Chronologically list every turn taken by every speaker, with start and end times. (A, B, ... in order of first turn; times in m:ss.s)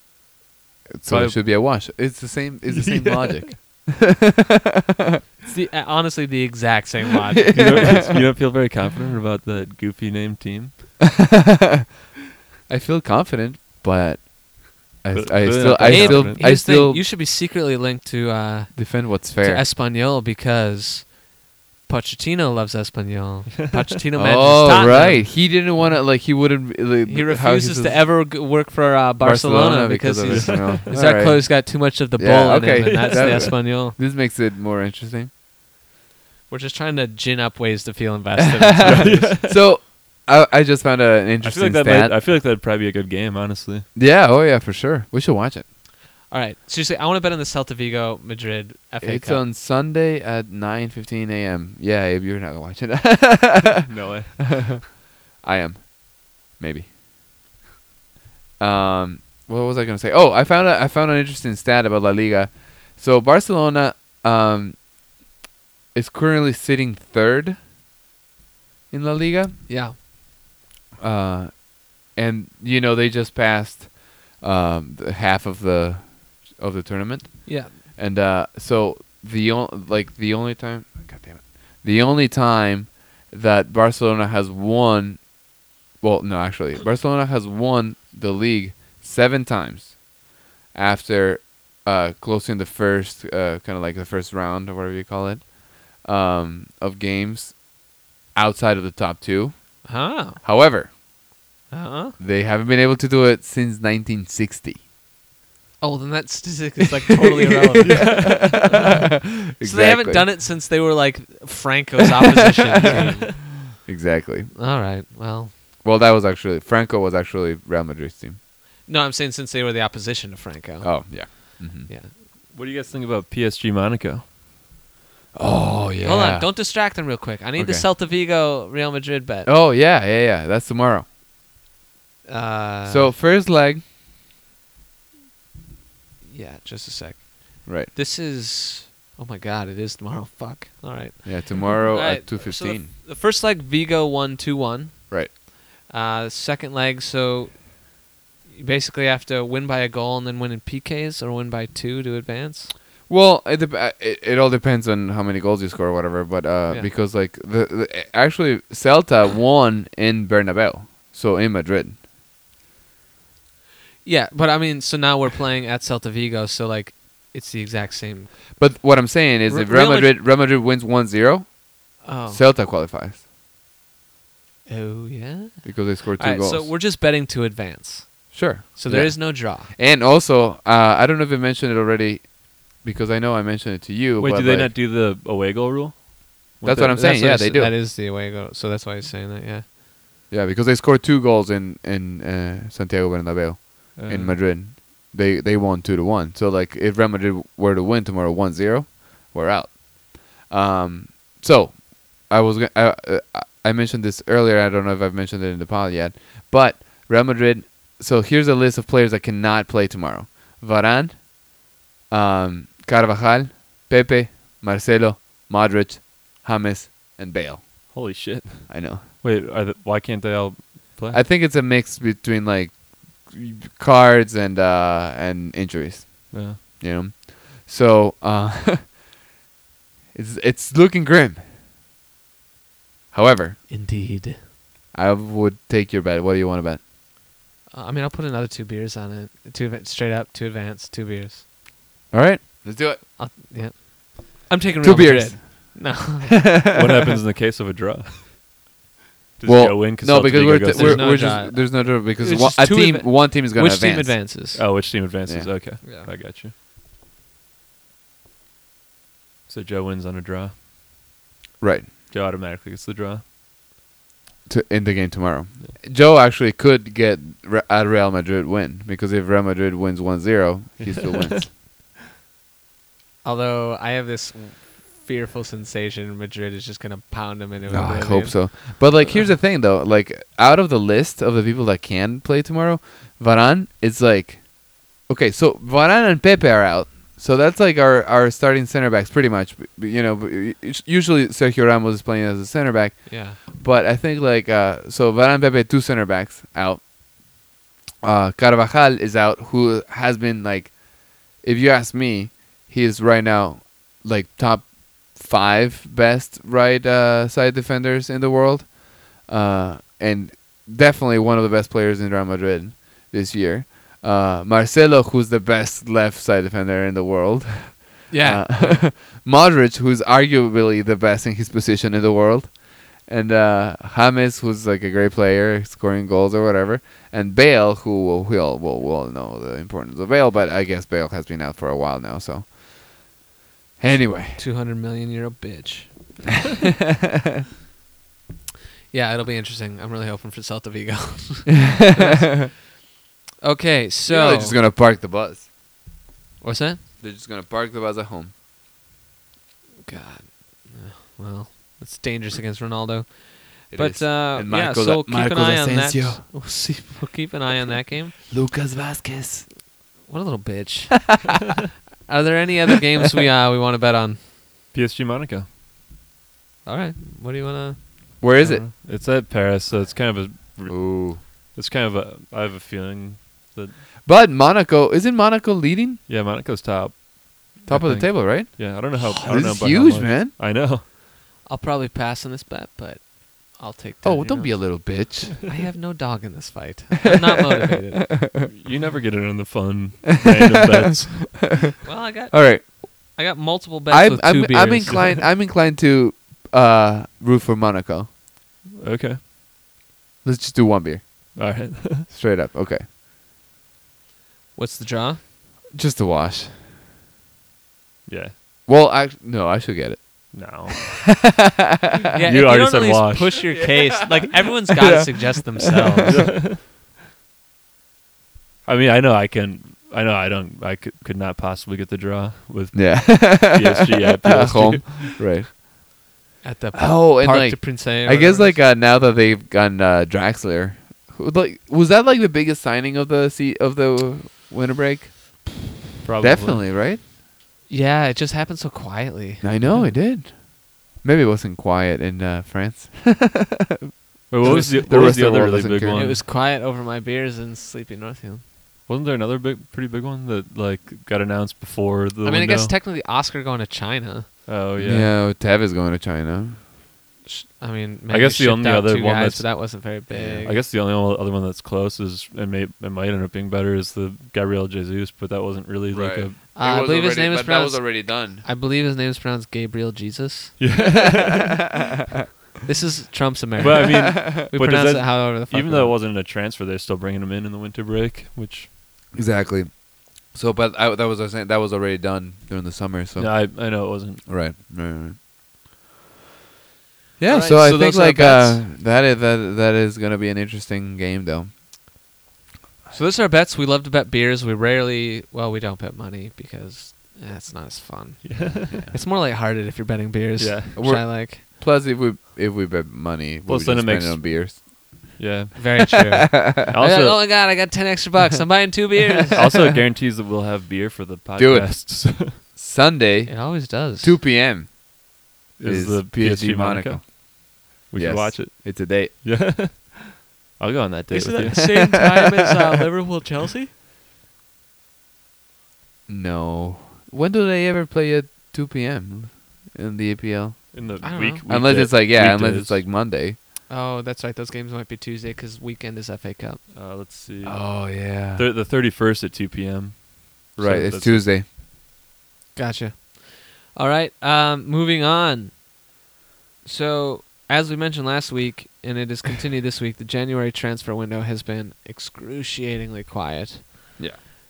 0:00.9-0:04.8 A
0:01.0-0:01.5 B
0:02.7-0:03.5 B
0:05.4-0:08.1 C
0:07.4-0:08.2 A
0:07.5-0:10.8 B
0:11.2-0:11.8 A
0:12.7-0:17.0 A
0:15.1-0:16.4 B
0:15.8-0:21.2 C
0:18.7-0:19.6 A
0:21.8-0:25.3 C
0:24.1-0:28.0 A
0:27.0-0:34.0 C
0:29.2-0:35.3 A
0:30.3-0:30.9 B
0:32.8-0:33.5 B
0:36.5-0:39.4 C
0:38.4-0:42.2 A
0:38.8-0:39.6 B
0:41.4-0:43.8 B
0:43.9-0:45.6 A
0:46.3-0:49.4 C
0:49.0-0:53.9 A
0:53.8-0:54.6 B
0:54.4-0:56.9 A
0:58.6-1:04.8 A
1:05.9-1:07.6 A
1:08.9-1:09.6 A
1:09.7-1:10.0 C
1:11.0-1:25.4 A
1:17.4-1:17.7 C
1:26.0-1:30.0 A
1:30.7-1:37.8 A
1:38.3-1:40.9 A
1:39.8-1:40.4 C
1:41.7-1:42.2 C
1:42.2-1:44.8 A
1:45.8-1:48.8 C
1:47.2-1:50.3 A
1:47.9-1:48.8 B
1:49.6-1:53.3 C
1:52.8-1:53.3 B
1:53.7-1:54.5 A
1:54.5-1:55.6 C
1:55.8-1:58.4 A
1:58.8-2:02.1 C
2:00.8-2:01.9 A
2:02.5-2:04.2 B
2:05.3-2:06.5 A
2:06.0-2:09.5 C
2:07.6-2:07.8 A
2:09.4-2:11.0 A
2:12.2-2:13.1 C
2:12.8-2:13.8 A
2:16.2-2:32.7 C
2:17.6-2:17.9 A
2:21.2-2:22.9 A
2:33.1-2:42.0 A
2:44.0-2:48.6 C
2:48.6-2:53.2 A
2:49.5-2:50.2 C
2:52.0-2:52.4 C
2:54.6-2:59.7 C
2:55.6-2:56.7 A
2:58.3-3:04.7 A
3:04.2-3:07.0 B
3:06.6-3:07.7 A
3:06.9-3:09.6 C
3:10.3-3:31.4 A
3:13.9-3:14.4 B
3:32.1-3:38.0 A
3:37.9-3:41.2 B
3:38.7-3:39.0 A
3:41.1-3:48.9 A
3:46.3-3:46.6 B
3:50.1-3:51.4 A
3:53.1-3:53.6 A
3:53.7-3:54.4 C
3:54.9-3:56.8 A
3:57.7-4:01.4 C
4:02.1-4:03.0 A
4:03.2-4:06.5 C
4:04.8-4:07.1 A
4:06.7-4:08.3 B
4:09.4-4:11.2 B
4:09.4-4:14.2 A
4:10.7-4:14.6 C
4:14.5-4:16.5 B
4:15.2-4:15.6 A
4:15.8-4:16.1 C
4:19.5-4:20.5 B
4:21.6-4:21.9 A
4:22.1-4:23.2 B
4:24.5-4:31.5 A
4:30.8-4:31.4 B
4:33.2-4:39.2 C
4:37.7-4:56.8 A
4:53.1-4:53.4 C
4:58.0-5:32.6 A
5:18.1-5:18.8 C
5:33.8-5:34.4 A
5:34.4-5:36.3 C
5:38.9-5:42.6 C
5:41.6-5:42.5 A
5:43.4-5:44.6 C
5:44.0-5:45.5 A
5:46.4-5:46.8 C
5:47.0-5:48.3 A
5:49.8-5:58.2 C
5:53.7-5:56.2 A
5:58.3-5:59.5 A
6:00.0-6:01.3 C
6:02.0-6:04.2 C
6:04.7-6:05.5 B
6:06.6-6:07.8 C
6:08.2-6:08.6 A
6:08.4-6:13.8 B
6:10.7-6:11.2 A
6:14.0-6:16.0 A
6:16.1-6:20.8 B
6:17.7-6:20.3 A
6:21.4-6:28.1 C
6:24.0-6:25.5 A
6:28.2-6:28.5 A
6:28.4-6:31.5 B
6:31.8-6:35.2 C
6:32.3-6:32.8 A
6:33.9-6:38.1 A
6:38.8-6:39.2 B
6:40.2-6:41.5 A
6:41.4-6:42.1 B
6:42.1-6:42.8 A
6:44.6-6:45.2 C
6:45.7-6:46.6 A
6:48.1-6:48.3 B
6:48.6-6:52.0 A
6:50.3-6:51.0 B
6:52.1-6:56.3 C
6:52.2-6:53.4 B
6:53.5-6:56.2 A
6:56.0-6:56.6 B
6:58.6-7:05.2 B
7:02.7-7:06.0 A
7:06.4-7:08.6 C
7:06.7-7:15.6 A
7:16.0-7:16.6 B
7:16.2-7:17.0 A
7:17.7-7:19.9 C
7:19.4-7:26.0 A
7:24.3-7:26.2 B
7:24.4-7:25.1 C
7:25.9-7:28.4 C
7:28.9-7:32.7 B
7:32.2-7:34.3 C
7:34.4-7:35.1 B
7:34.8-7:36.6 A
7:37.2-7:40.6 C
7:38.1-7:46.4 B
7:40.1-7:40.5 A
7:45.9-7:48.4 A
7:46.5-7:50.6 C
7:50.6-7:51.6 B
7:51.1-7:51.8 A
7:52.6-7:56.0 C
7:53.6-7:58.7 B
7:53.9-7:54.4 A
7:59.1-8:05.2 A
8:03.2-8:04.3 B
8:07.2-8:11.6 A
8:07.3-8:08.6 C
8:12.9-8:21.4 C
8:18.2-8:18.9 B
8:20.4-8:20.8 B
8:20.8-8:25.2 A
8:23.4-8:24.6 B
8:25.2-8:26.0 B
8:25.5-8:29.5 C
8:26.3-8:26.6 A
8:26.6-8:27.3 B
8:29.3-8:32.4 B
8:31.4-8:34.8 A
8:33.2-8:34.2 C
8:35.6-8:37.1 B
8:35.6-8:37.2 A
8:37.8-8:41.8 B
8:37.9-8:39.1 A
8:41.1-8:43.7 C
8:41.5-8:41.9 A
8:46.1-8:53.4 A
8:50.7-8:52.8 B
8:51.0-8:51.4 C
8:53.7-8:56.6 C
8:56.7-9:01.2 B
8:57.4-8:58.4 A
9:00.6-9:01.4 A
9:02.5-9:05.6 C
9:06.6-9:13.6 C
9:14.0-9:14.2 A